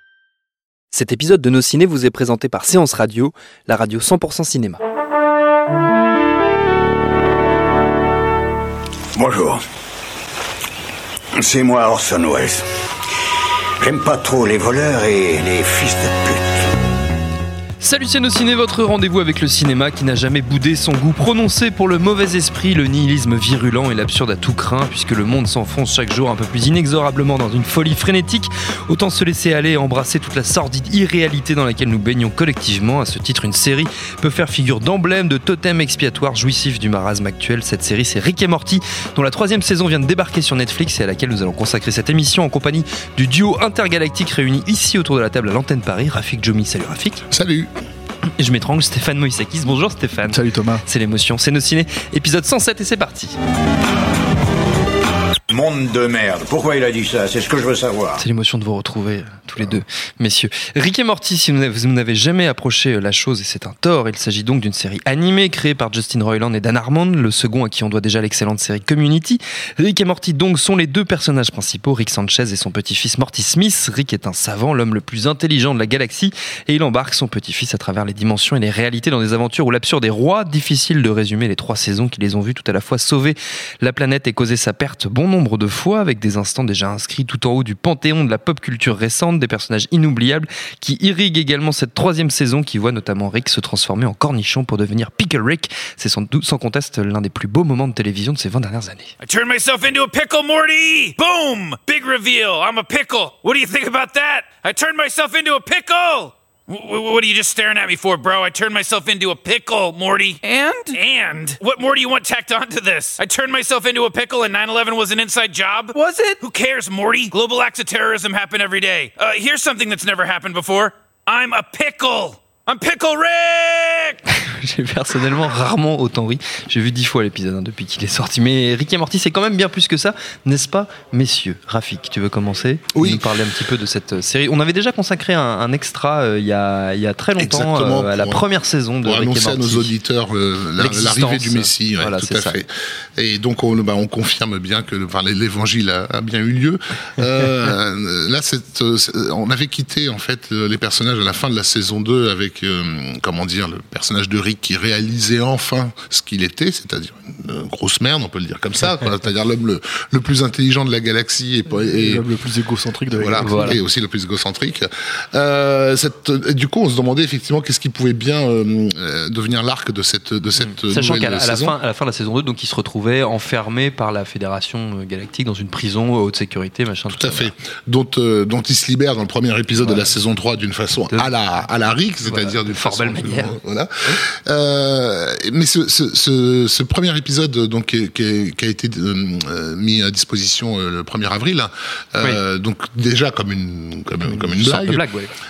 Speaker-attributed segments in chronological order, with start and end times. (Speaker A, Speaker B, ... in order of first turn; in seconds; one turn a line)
Speaker A: 0.9-4.8
Speaker B: 9.2-9.6
Speaker B: 11.4-12.7
Speaker B: 13.8-16.7
Speaker A: 17.8-47.3
Speaker C: 47.3-47.7
Speaker A: 48.4-53.4
Speaker D: 50.3-50.8
Speaker B: 55.5-58.2
Speaker A: 58.2-99.1
Speaker E: 99.2-124.2
Speaker A: 124.3-139.9
Speaker C: 132.9-133.3
Speaker C: 137.4-138.4
Speaker C: 139.0-162.2
Speaker A: 140.8-142.6
Speaker D: 161.7-163.8
Speaker C: 163.1-171.7
Speaker A: 163.4-163.8
Speaker A: 170.7-177.5
Speaker C: 177.1-195.0
Speaker A: 179.8-180.1
Speaker A: 182.3-184.2
Speaker A: 194.2-195.3